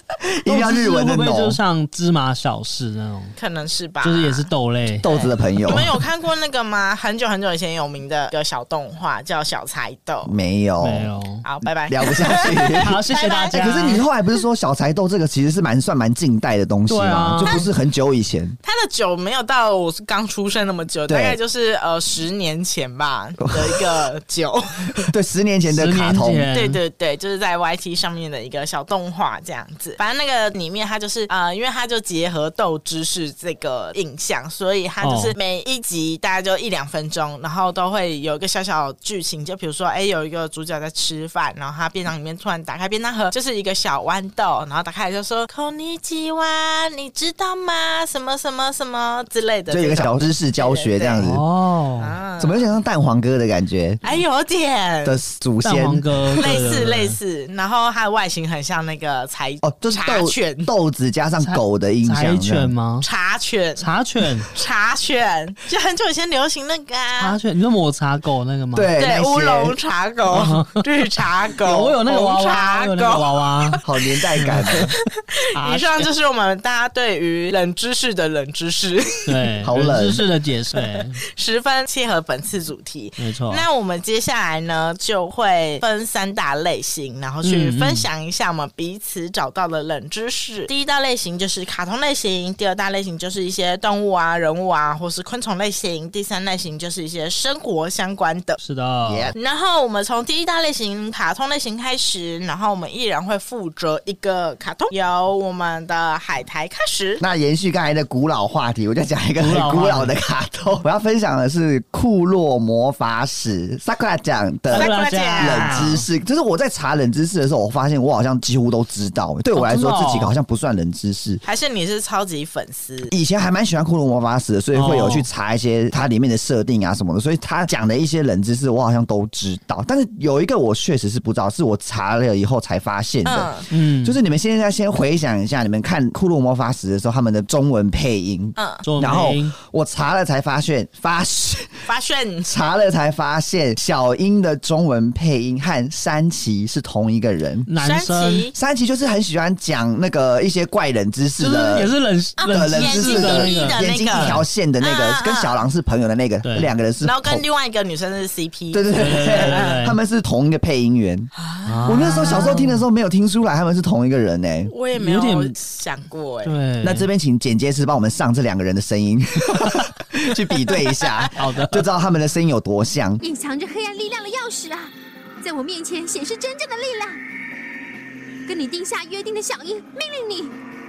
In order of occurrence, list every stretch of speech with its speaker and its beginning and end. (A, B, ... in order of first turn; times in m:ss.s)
0:00.4-0:01.6 A
0:00.5-0:03.4 B
0:03.4-0:04.5 C
0:04.0-0:05.0 B
0:05.0-0:05.9 A
0:05.0-0:10.3 C
0:10.2-0:11.1 A
0:10.8-0:11.4 B
0:11.4-0:14.0 C
0:11.9-0:12.9 A
0:12.8-0:14.0 B
0:13.5-0:18.6 A
0:16.9-0:17.6 B
0:18.6-0:25.1 C
0:21.1-0:21.4 A
0:23.4-0:24.0 A
0:25.0-0:26.5 A
0:25.7-0:26.8 B
0:26.5-0:51.3 C
0:35.0-0:35.3 B
0:49.7-0:51.4 A
0:51.2-0:52.1 B
0:52.0-0:52.7 C
0:52.4-0:54.0 A
0:54.0-0:55.2 C
0:55.0-0:56.0 A
0:55.6-0:57.2 B
0:56.4-1:00.7 C
0:59.6-1:02.7 A
1:01.4-1:03.0 B
1:03.0-1:03.8 C
1:03.8-1:04.5 B
1:04.5-1:07.4 C
1:07.2-1:08.9 B
1:08.7-1:09.7 A
1:09.0-1:14.9 C
1:10.3-1:10.9 B
1:11.6-1:13.8 B
1:13.8-1:14.9 A
1:14.4-1:14.9 B
1:15.5-1:16.1 B
1:15.6-1:19.3 C
1:19.2-1:21.2 B
1:19.6-1:20.2 A
1:20.8-1:38.6 C
1:23.2-1:23.6 B
1:27.4-1:28.1 B
1:38.6-1:39.3 B
1:39.0-1:39.4 A
1:39.4-1:47.2 C
1:47.2-2:01.4 A
1:49.4-1:50.1 B
1:54.7-1:56.0 B
1:54.7-1:55.9 C
1:59.5-2:00.3 B
2:01.4-2:03.1 C
2:03.1-2:21.9 A
2:04.7-2:05.3 B
2:13.2-2:13.6 C
2:13.7-2:14.2 B
2:18.6-2:18.8 C
2:18.8-2:19.5 B
2:21.9-2:22.5 C
2:22.5-2:27.7 A
2:27.7-2:28.5 B
2:27.8-2:28.5 C
2:28.5-2:31.9 A
2:31.4-2:34.4 B
2:32.4-2:35.6 C
2:32.5-2:37.4 A
2:36.4-2:36.7 B
2:37.0-2:39.8 C
2:38.7-2:41.3 A
2:38.9-2:40.0 B
2:41.4-2:42.6 C
2:41.6-2:42.8 B
2:41.8-2:44.7 A
2:44.7-2:46.5 C
2:44.9-2:45.5 B
2:46.4-2:47.1 B
2:46.8-2:53.2 A
2:50.8-2:51.3 C
2:51.4-2:51.9 B
2:53.2-2:57.2 D
2:58.4-3:00.5 D